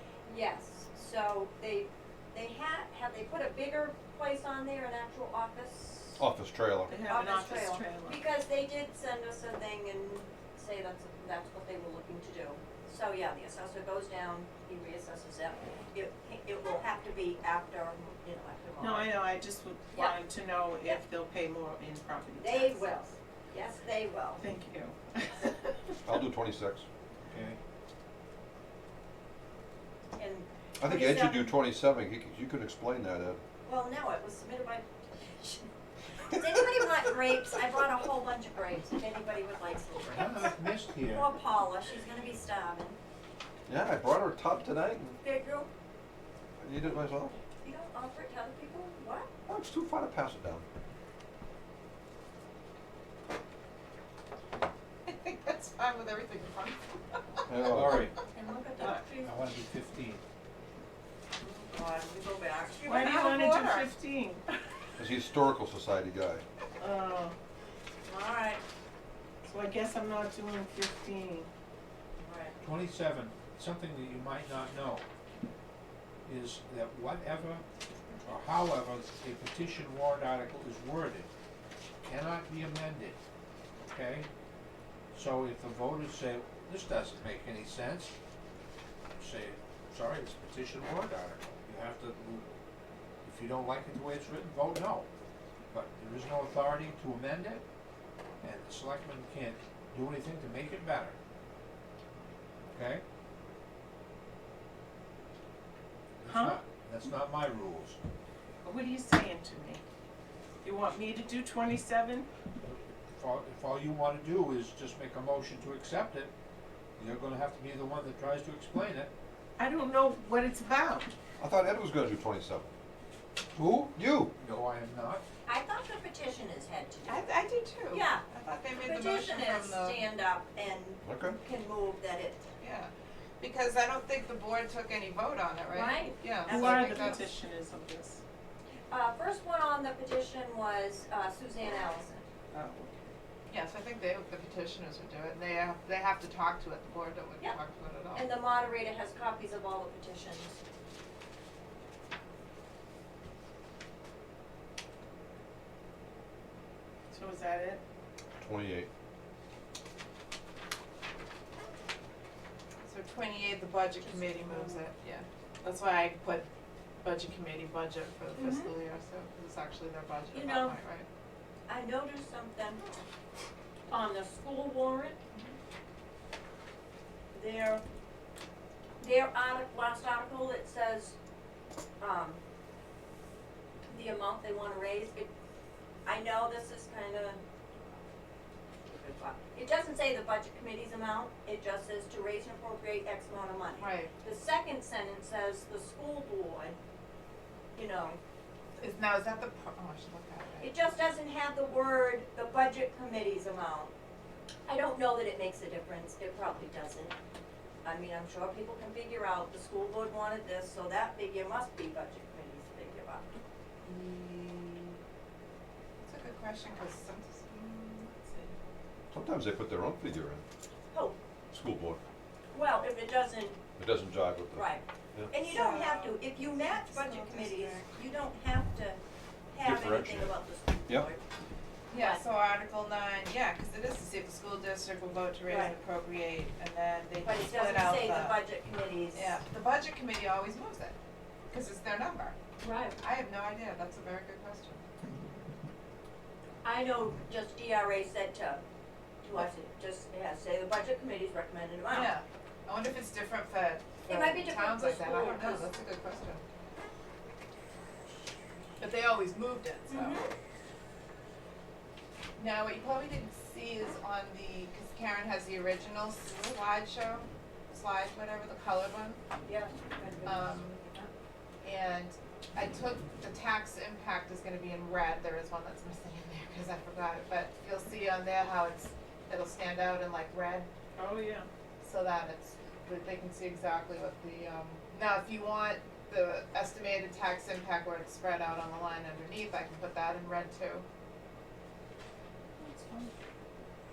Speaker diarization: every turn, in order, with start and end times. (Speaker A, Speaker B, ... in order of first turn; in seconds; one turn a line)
Speaker A: 0.3-6.2
Speaker B: 6.2-6.9
Speaker C: 6.9-8.2
Speaker A: 6.9-19.2
Speaker C: 18.8-23.1
Speaker A: 22.4-24.4
Speaker C: 24.4-26.1
Speaker B: 26.1-26.9
Speaker D: 27.3-27.6
Speaker A: 30.2-31.5
Speaker B: 30.8-33.4
Speaker A: 33.6-35.7
Speaker A: 36.3-43.0
Speaker D: 40.0-41.3
Speaker B: 43.7-45.2
Speaker A: 45.2-45.7
Speaker B: 46.6-47.4
Speaker A: 47.6-49.3
Speaker B: 49.5-50.6
Speaker E: 55.0-57.2
Speaker B: 57.5-58.1
Speaker D: 57.6-58.1
Speaker A: 58.3-59.3
Speaker C: 58.8-59.0
Speaker D: 59.2-60.2
Speaker A: 61.4-63.2
Speaker E: 62.8-63.9
Speaker C: 62.8-64.4
Speaker B: 65.0-66.4
Speaker C: 66.8-67.3
Speaker A: 68.0-68.6
Speaker C: 69.4-71.5
Speaker A: 72.2-72.5
Speaker D: 72.6-75.0
Speaker D: 76.2-77.6
Speaker D: 78.2-81.3
Speaker D: 82.0-83.2
Speaker D: 83.8-84.3
Speaker D: 85.1-88.1
Speaker D: 89.2-92.6
Speaker D: 93.2-95.1
Speaker D: 95.7-97.6
Speaker D: 98.4-101.2
Speaker D: 102.7-103.0
Speaker D: 106.2-108.0
Speaker C: 106.3-106.6
Speaker C: 108.6-109.8
Speaker C: 110.6-112.3
Speaker D: 112.6-116.3
Speaker D: 117.0-119.1
Speaker C: 119.6-121.1
Speaker B: 121.4-122.7
Speaker D: 123.5-125.2
Speaker B: 123.9-124.3
Speaker A: 125.5-127.3
Speaker E: 127.1-130.0
Speaker A: 127.9-132.5
Speaker B: 131.0-131.4
Speaker E: 132.6-137.3
Speaker A: 135.7-137.2
Speaker C: 136.5-138.2
Speaker A: 138.9-142.2
Speaker C: 142.5-143.1
Speaker E: 143.5-148.3
Speaker A: 148.1-150.6
Speaker C: 157.1-157.8
Speaker B: 158.4-158.9
Speaker E: 162.8-166.5
Speaker A: 164.0-164.8
Speaker E: 167.0-171.1
Speaker A: 168.3-168.7
Speaker A: 170.3-170.8
Speaker A: 171.7-172.8
Speaker A: 173.9-175.2
Speaker A: 177.3-177.8
Speaker A: 179.0-181.2
Speaker A: 182.0-182.4
Speaker A: 183.9-185.3
Speaker A: 186.1-187.4
Speaker A: 188.8-196.8
Speaker E: 193.8-194.1
Speaker A: 197.7-198.2
Speaker E: 198.8-200.7
Speaker A: 200.6-203.9
Speaker A: 204.7-207.1
Speaker A: 207.8-213.3
Speaker E: 213.8-215.0
Speaker E: 216.0-218.6
Speaker B: 219.1-220.4
Speaker A: 220.9-221.2
Speaker B: 221.5-222.0
Speaker A: 222.5-223.6
Speaker B: 223.8-225.3
Speaker A: 224.5-229.0
Speaker E: 225.4-227.9
Speaker A: 229.5-231.2
Speaker B: 229.6-230.3
Speaker E: 231.9-238.4
Speaker A: 231.9-232.2
Speaker A: 235.4-235.8
Speaker A: 237.2-239.4
Speaker E: 239.1-240.9
Speaker E: 241.5-242.3
Speaker A: 242.6-243.0
Speaker E: 243.0-244.8
Speaker A: 246.6-248.6
Speaker A: 249.2-252.1
Speaker E: 251.9-256.4
Speaker A: 254.1-255.7
Speaker E: 258.8-260.2
Speaker A: 259.9-260.3
Speaker E: 262.4-269.2
Speaker A: 269.4-271.1
Speaker E: 270.2-270.8
Speaker E: 271.6-280.7
Speaker C: 280.9-281.5
Speaker E: 281.8-290.8
Speaker C: 292.6-293.1